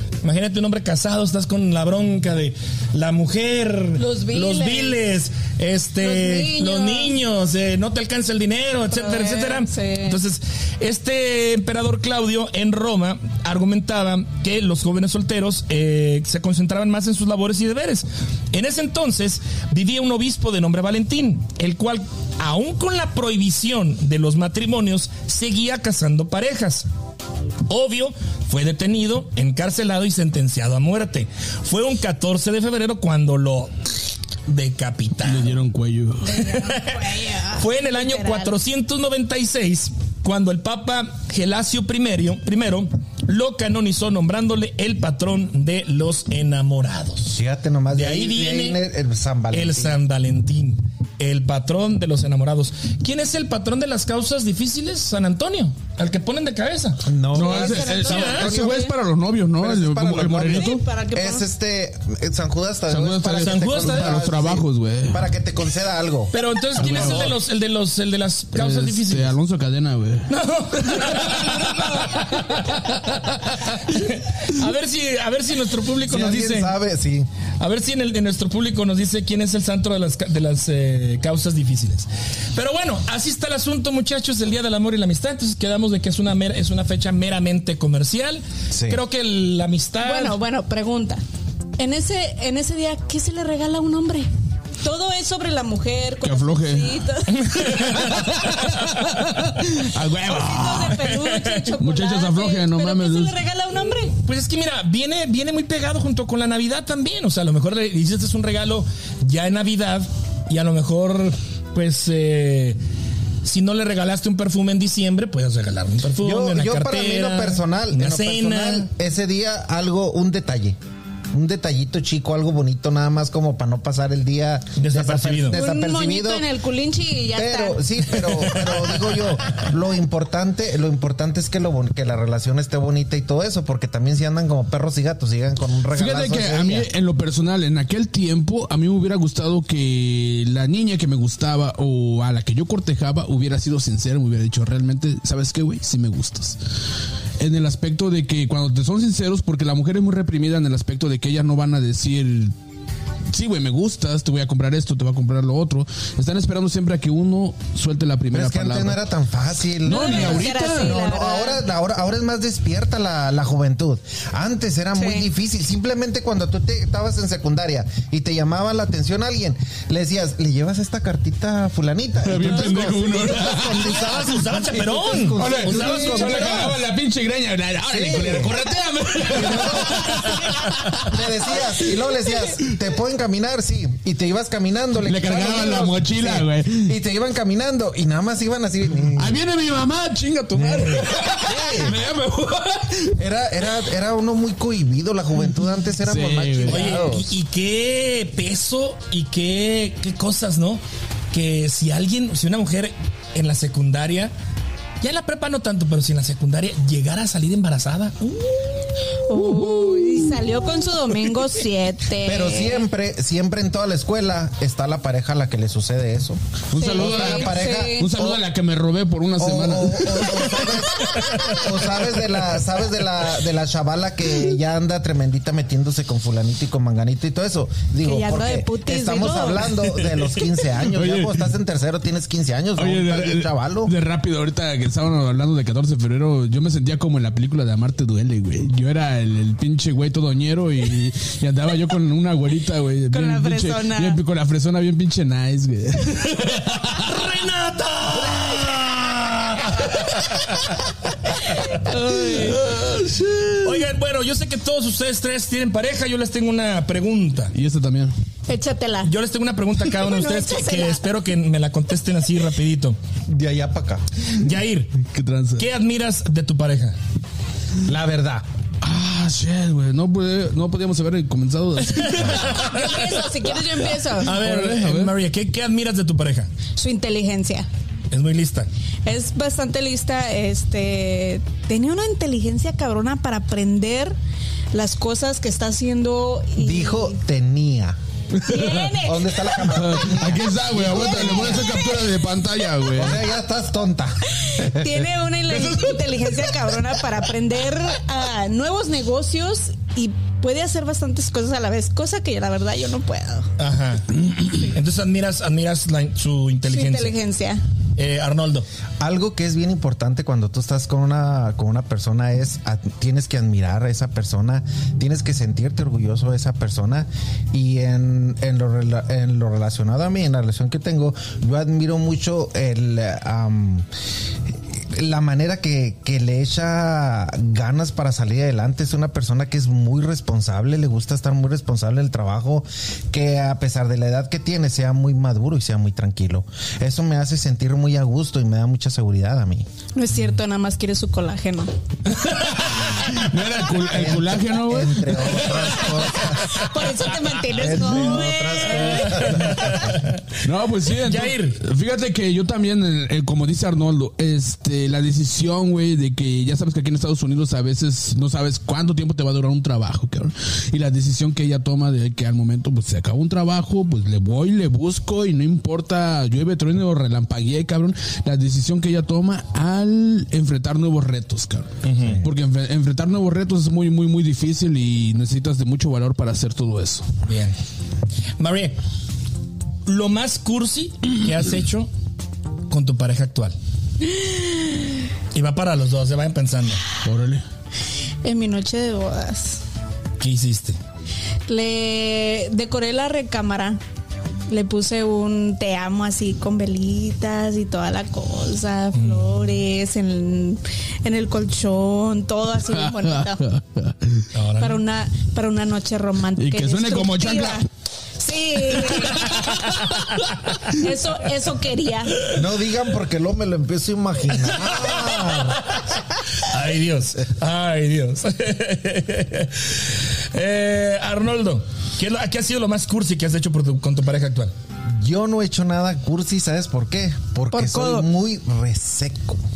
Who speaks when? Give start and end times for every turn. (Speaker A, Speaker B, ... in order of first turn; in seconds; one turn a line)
Speaker A: 0.2-26.9
Speaker B: 4.0-5.0
Speaker B: 6.0-7.2
Speaker B: 8.9-10.2
Speaker A: 27.7-33.8
Speaker A: 34.5-35.5
Speaker C: 35.2-36.3
Speaker B: 36.3-38.5
Speaker A: 36.3-47.4
Speaker D: 47.3-50.0
Speaker A: 47.9-48.8
Speaker A: 49.5-57.0
Speaker D: 57.0-58.9
Speaker C: 57.3-60.9
Speaker B: 57.4-58.9
Speaker A: 58.1-58.5
Speaker D: 59.6-67.2
Speaker B: 60.5-61.5
Speaker C: 62.9-65.2
Speaker A: 63.4-64.2
Speaker A: 66.3-69.3
Speaker C: 66.8-67.4
Speaker C: 68.6-70.3
Speaker A: 70.3-76.7
Speaker C: 70.8-73.5
Speaker D: 76.1-77.3
Speaker A: 77.6-90.4
Speaker D: 88.7-89.0
Speaker B: 90.0-91.2
Speaker B: 91.8-94.3
Speaker B: 94.8-98.6
Speaker C: 96.2-97.0
Speaker A: 97.3-99.2
Speaker C: 97.7-101.1
Speaker B: 100.0-104.1
Speaker A: 101.0-101.8
Speaker C: 101.8-103.4
Speaker A: 104.2-112.8
Speaker A: 113.4-118.9
Speaker D: 116.2-120.8
Speaker D: 121.3-126.5
Speaker A: 124.8-125.6
Speaker B: 125.5-127.8
Speaker D: 127.3-136.9
Speaker A: 128.5-128.9
Speaker C: 135.9-146.6
Speaker C: 147.4-152.5
Speaker C: 153.3-159.0
Speaker D: 158.3-176.8
Speaker C: 159.8-161.0
Speaker B: 159.9-161.6
Speaker B: 164.9-165.3
Speaker C: 172.2-173.9
Speaker A: 173.8-176.8
Speaker C: 175.4-181.2
Speaker D: 177.9-178.6
Speaker D: 179.2-180.5
Speaker D: 181.0-189.4
Speaker C: 185.0-186.9
Speaker C: 189.1-193.2
Speaker D: 190.6-192.0
Speaker D: 193.2-197.3
Speaker C: 196.0-197.1
Speaker A: 196.7-204.3
Speaker A: 205.0-208.7
Speaker B: 209.3-212.8
Speaker C: 209.4-210.4
Speaker D: 212.2-218.4
Speaker C: 216.7-220.7
Speaker B: 216.8-218.1
Speaker D: 219.4-233.9
Speaker B: 220.6-221.2
Speaker A: 221.3-221.6
Speaker B: 228.1-229.9
Speaker C: 230.8-231.4
Speaker C: 232.8-247.0
Speaker B: 243.1-244.2
Speaker A: 246.8-251.8
Speaker C: 248.3-248.9
Speaker C: 249.9-250.6
Speaker B: 251.4-252.7
Speaker C: 252.2-253.6
Speaker A: 253.6-257.5
Speaker C: 257.5-258.1
Speaker B: 258.5-259.1
Speaker A: 259.0-263.0
Speaker B: 259.9-261.0
Speaker D: 263.3-264.0
Speaker A: 264.3-264.9
Speaker C: 265.0-265.7
Speaker A: 265.6-267.0
Speaker D: 267.9-268.4
Speaker C: 268.8-275.1
Speaker A: 271.9-273.2
Speaker B: 272.5-274.3
Speaker A: 274.2-276.5
Speaker B: 276.8-277.7
Speaker A: 278.1-278.7
Speaker B: 279.1-284.2
Speaker B: 284.7-287.1
Speaker D: 286.6-288.0
Speaker C: 288.3-288.9
Speaker B: 288.4-292.1
Speaker D: 289.0-291.8
Speaker C: 289.7-293.2
Speaker D: 292.9-295.1
Speaker B: 294.4-303.5
Speaker C: 295.5-296.5
Speaker A: 303.6-307.2
Speaker B: 306.7-307.6
Speaker A: 308.0-308.7
Speaker D: 309.0-323.9
Speaker D: 324.8-339.7
Speaker B: 339.9-341.7
Speaker A: 342.1-343.2
Speaker C: 342.3-346.0
Speaker D: 343.9-346.6
Speaker B: 346.3-350.0
Speaker D: 347.5-350.0
Speaker C: 348.7-349.3
Speaker A: 348.9-350.2
Speaker C: 350.4-377.1
Speaker A: 351.0-351.6
Speaker A: 371.8-372.2
Speaker D: 372.0-372.3
Speaker A: 377.2-377.6
Speaker A: 378.4-378.8
Speaker A: 379.9-381.9
Speaker A: 382.7-383.6
Speaker B: 384.1-384.9
Speaker A: 385.3-386.8
Speaker C: 387.0-387.4
Speaker B: 388.2-389.6
Speaker A: 390.2-390.8
Speaker B: 391.5-393.8
Speaker B: 394.5-403.4
Speaker A: 398.9-399.6
Speaker C: 402.7-404.3
Speaker A: 404.3-404.8
Speaker B: 404.6-407.7
Speaker C: 406.4-407.6
Speaker B: 408.2-409.8
Speaker C: 408.7-410.0
Speaker A: 409.3-410.8
Speaker B: 410.7-412.2
Speaker D: 412.3-415.8
Speaker A: 414.4-424.5
Speaker D: 425.0-429.4
Speaker C: 427.5-428.0